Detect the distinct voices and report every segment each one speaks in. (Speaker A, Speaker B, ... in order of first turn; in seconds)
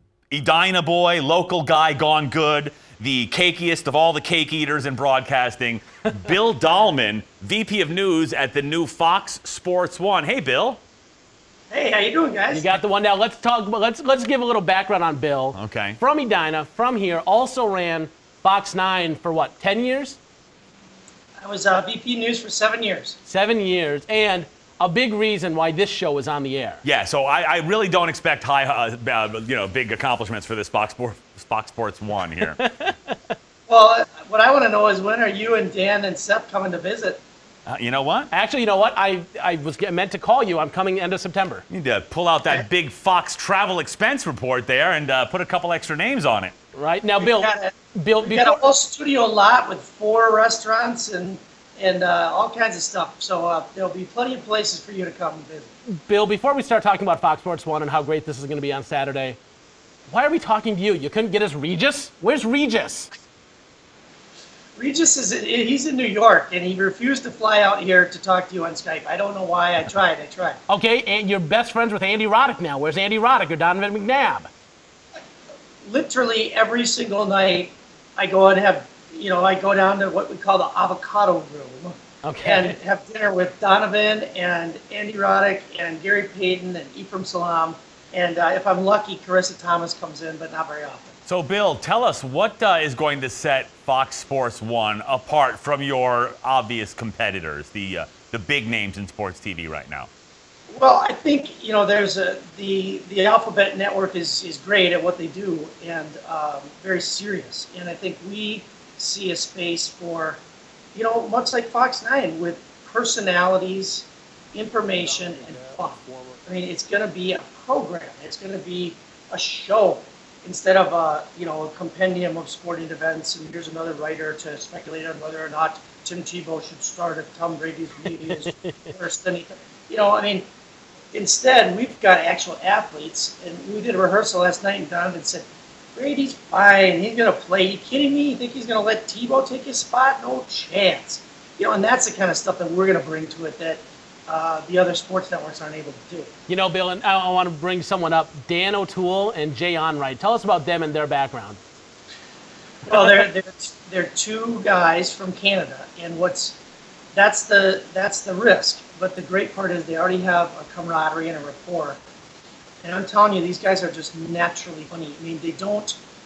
Speaker A: 0.3-10.8, 15.5-16.0, 26.8-32.6, 37.7-38.3, 41.7-46.5, 91.3-100.1
Speaker B: 11.7-12.7, 21.4-23.2, 33.7-37.2, 47.2-55.7, 64.8-70.6, 75.8-91.2, 100.7-110.4, 111.0-130.5, 131.1-146.3, 152.9-156.6, 157.1-162.0, 162.8-166.0
Speaker C: 12.5-20.2, 23.3-26.8, 32.6-32.9, 38.3-41.6, 46.7-48.6, 55.9-59.4, 60.1-63.1, 70.7-74.5, 82.2-82.7, 128.3-128.7, 146.5-151.6